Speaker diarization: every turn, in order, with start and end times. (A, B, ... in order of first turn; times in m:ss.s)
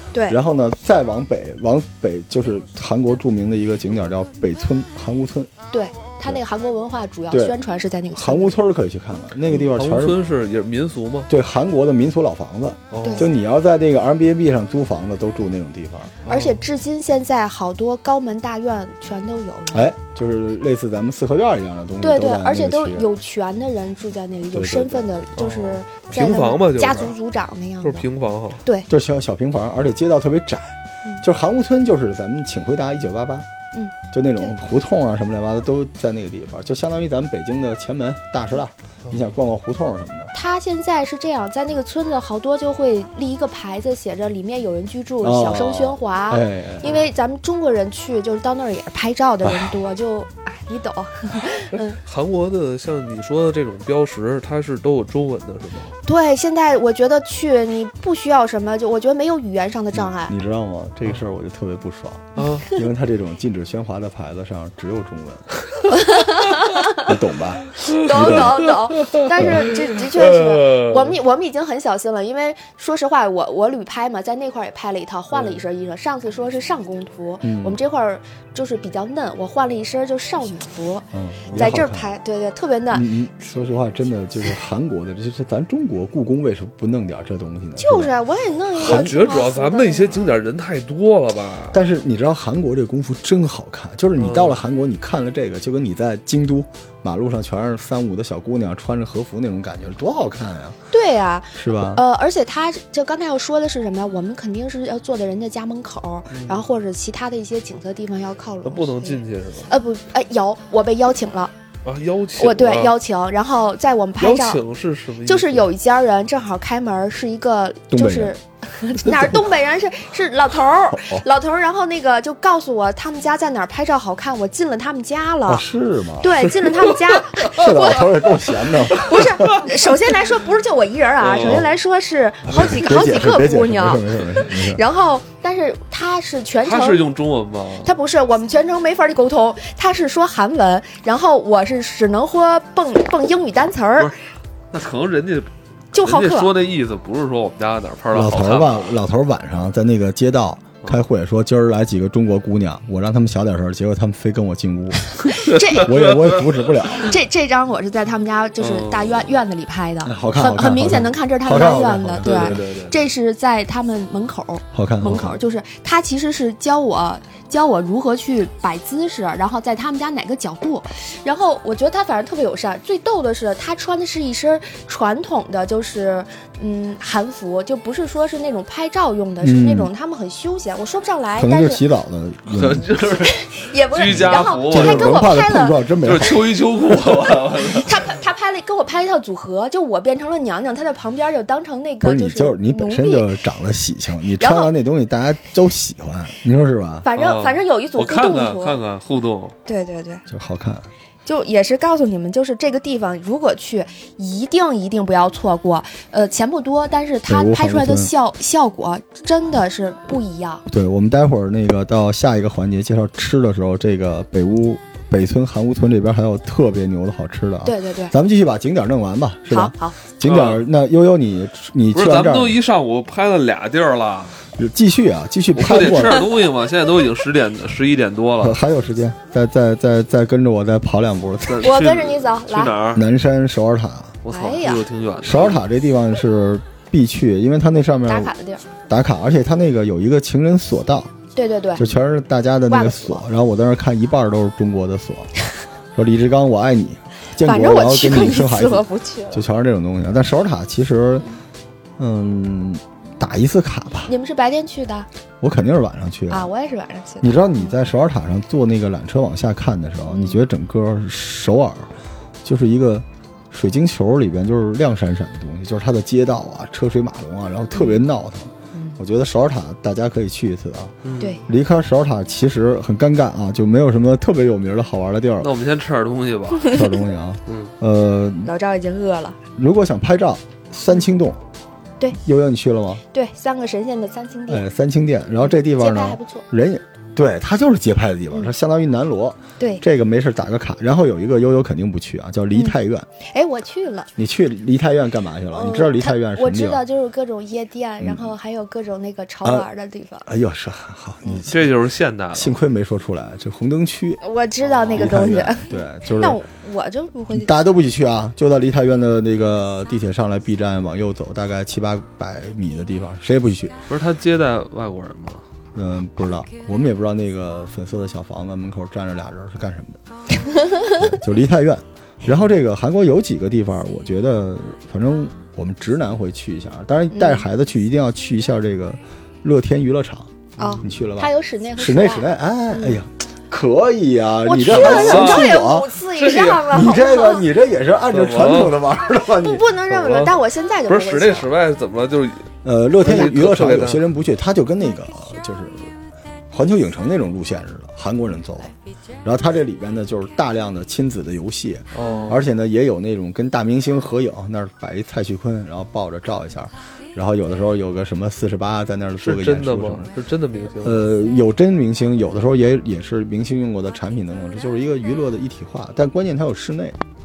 0:00.1-0:00.4 A
0:00.3-0:05.5 B
0:05.7-0:08.5 A
0:07.3-0:07.6 B
0:08.1-0:10.2 B
0:09.6-0:11.3 C
0:11.3-0:16.1 B
0:12.9-0:13.3 C
0:13.0-0:13.3 A
0:16.2-0:16.6 C
0:16.2-0:19.9 A
0:19.7-0:23.1 B
0:22.0-0:28.1 A
0:24.5-0:25.1 B
0:25.4-0:27.1 C
0:27.8-0:28.6 C
0:28.9-0:33.5 B
0:33.7-0:34.5 A
0:34.1-0:40.3 B
0:40.3-0:52.0 A
0:45.2-0:46.9 B
0:49.4-0:49.8 B
0:51.7-0:55.9 C
0:56.0-1:00.4 A
0:59.9-1:05.5 B
1:02.4-1:02.7 C
1:02.4-1:02.8 A
1:05.9-1:07.1 A
1:06.9-1:08.6 B
1:07.8-1:11.2 C
1:07.9-1:23.1 A
1:09.4-1:09.7 B
1:17.4-1:17.8 B
1:21.1-1:22.1 B
1:22.9-1:28.1 B
1:27.8-1:30.2 A
1:28.8-1:29.2 B
1:28.8-1:31.8 C
1:31.7-1:40.8 B
1:34.2-1:34.6 C
1:40.9-1:51.5 A
1:41.5-1:42.0 B
1:46.3-1:46.6 C
1:48.6-1:49.7 C
1:51.8-1:53.0 C
1:52.4-1:54.6 A
1:54.2-1:55.7 C
1:55.2-2:05.6 A
1:57.9-1:58.3 B
1:59.0-1:59.3 B
2:00.9-2:01.2 B
2:05.4-2:06.5 B
2:06.2-2:17.1 A
2:06.9-2:07.2 C
2:07.5-2:09.7 B
2:11.2-2:11.6 C
2:12.4-2:14.8 B
2:16.6-2:17.9 C
2:17.8-2:24.1 A
2:24.7-2:29.0 C
2:25.9-2:26.5 A
2:28.1-2:37.1 B
2:35.2-2:36.1 A
2:35.9-2:36.4 C
2:36.9-3:01.8 A
2:38.6-2:39.3 C
2:40.0-2:43.0 B
2:42.0-2:42.6 C
2:44.7-2:45.3 B
2:59.4-2:59.9 B
3:01.4-3:02.9 B
3:02.5-3:05.3 C
3:03.2-3:05.8 A
3:04.1-3:07.3 B
3:06.0-3:08.0 C
3:07.7-3:13.3 A
3:12.0-3:17.1 B
3:14.4-3:14.7 A
3:17.0-3:18.8 A
3:17.1-3:19.6 C
3:19.6-3:20.2 A
3:20.3-3:20.9 B
3:21.2-3:30.6 A
3:27.3-3:28.1 B
3:30.7-3:42.6 B
3:37.6-3:38.1 A
3:39.5-3:40.0 A
3:40.2-3:40.6 C
3:41.9-3:44.3 C
3:44.5-3:46.3 B
3:45.5-3:48.6 C
3:45.8-3:46.3 A
3:48.4-3:51.7 B
3:51.5-3:53.0 C
3:51.6-3:52.8 A
3:52.9-3:54.2 B
3:54.2-3:55.6 C
3:54.3-3:54.9 A
3:55.2-3:58.3 B
3:58.1-3:58.6 A
3:58.9-4:01.1 B
4:01.3-4:01.9 A
4:01.8-4:05.3 B
4:02.7-4:03.3 A
4:05.9-4:11.3 B
4:07.4-4:09.4 A
4:12.0-4:14.1 B
4:14.1-4:15.1 A
4:15.4-4:16.5 B
4:16.3-4:17.7 A
4:17.2-4:21.9 B
4:20.0-4:20.4 A
4:22.4-4:35.5 B
4:27.7-4:28.0 A
4:31.0-4:31.4 C
4:31.2-4:31.4 A
4:35.4-4:36.8 C
4:36.6-4:38.5 B
4:37.5-4:37.7 C
4:38.4-4:39.4 A
4:39.6-4:41.4 B
4:42.1-4:43.0 B
4:43.1-4:44.6 A
4:44.5-4:53.1 B
4:45.4-4:46.5 A
4:52.5-4:54.1 A
4:54.2-4:56.8 B
4:55.5-5:00.3 A
4:58.0-4:58.3 B
5:00.2-5:01.7 B
5:01.5-5:02.6 C
5:02.3-5:04.2 B
5:04.2-5:07.5 A
5:05.0-5:06.4 B
5:07.3-5:13.8 B
5:13.9-5:15.4 C
5:15.7-5:20.0 B
5:20.8-5:30.3 B
5:27.1-5:27.4 A
5:30.6-5:33.0 A
5:30.8-5:35.9 B
5:34.4-5:37.4 A
5:34.7-5:36.8 C
5:36.7-5:39.7 B
5:38.1-5:38.8 C
5:39.3-5:41.5 A
5:39.9-5:44.0 C
5:42.6-5:45.9 B
5:46.5-5:48.7 B
5:49.2-6:00.1 B
5:51.9-5:52.4 C
5:52.0-5:52.4 A
5:59.2-6:01.1 C
6:00.8-6:07.0 B